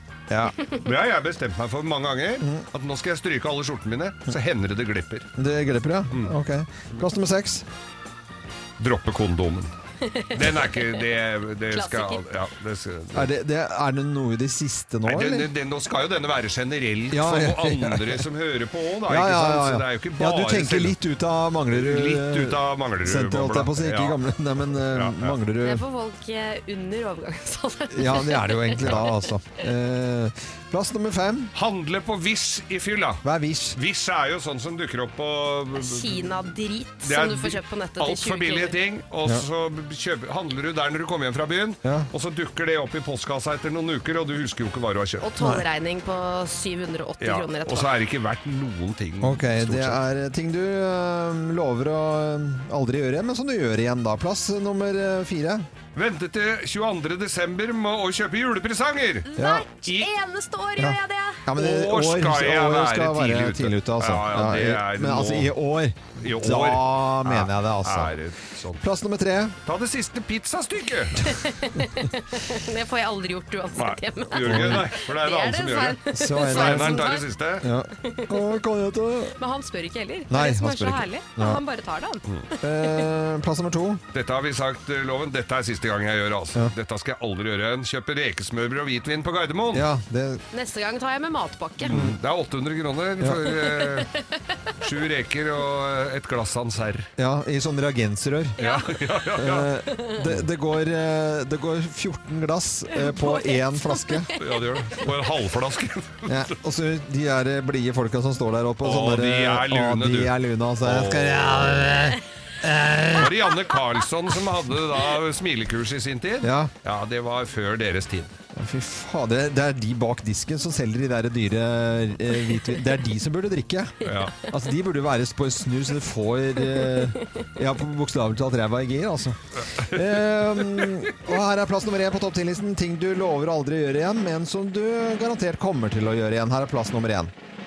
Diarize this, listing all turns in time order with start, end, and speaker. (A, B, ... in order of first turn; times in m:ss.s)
0:00.3-0:00.5 A
0:00.7-0:05.3 B
0:05.4-0:07.6 A
0:08.8-0:09.7 B
0:10.0-0:11.0 C
0:10.3-0:13.3 B
0:11.7-0:12.2 C
0:13.1-0:15.5 A
0:15.0-0:21.0 B
0:17.1-0:18.2 A
0:19.0-0:25.8 A
0:21.7-0:24.2 B
0:24.9-0:25.4 B
0:25.6-0:29.0 C
0:27.9-0:31.5 A
0:31.5-0:33.2 B
0:33.2-0:33.8 A
0:33.7-0:36.4 B
0:35.8-0:38.7 C
0:37.0-0:45.2 B
0:41.8-0:42.1 A
0:45.2-0:47.9 C
0:45.4-0:45.6 A
0:47.2-0:50.0 B
0:49.2-0:55.7 A
0:55.9-0:59.3 B
0:59.3-1:01.4 C
0:59.4-0:59.7 A
1:00.8-1:08.1 A
1:01.6-1:05.5 B
1:06.2-1:08.8 B
1:08.8-1:09.5 A
1:09.6-1:11.3 B
1:11.2-1:17.2 C
1:13.8-1:17.7 B
1:14.4-1:14.8 A
1:16.1-1:19.4 A
1:19.4-1:23.0 C
1:20.3-1:21.6 A
1:22.6-1:24.0 A
1:24.1-1:29.9 B
1:29.7-1:30.4 A
1:30.5-1:32.0 C
1:31.8-1:34.1 B
1:33.5-1:34.1 C
1:34.8-1:37.1 B
1:37.2-1:38.6 A
1:38.6-1:39.0 C
1:38.6-1:39.7 B
1:39.4-1:44.3 A
1:39.9-1:40.2 C
1:42.9-1:45.0 C
1:44.4-1:46.5 B
1:46.3-1:53.4 A
1:48.8-1:51.8 B
1:53.1-1:58.4 B
1:56.4-1:56.7 A
1:58.5-2:17.3 A
2:04.0-2:04.4 B
2:09.8-2:10.0 B
2:10.6-2:11.1 B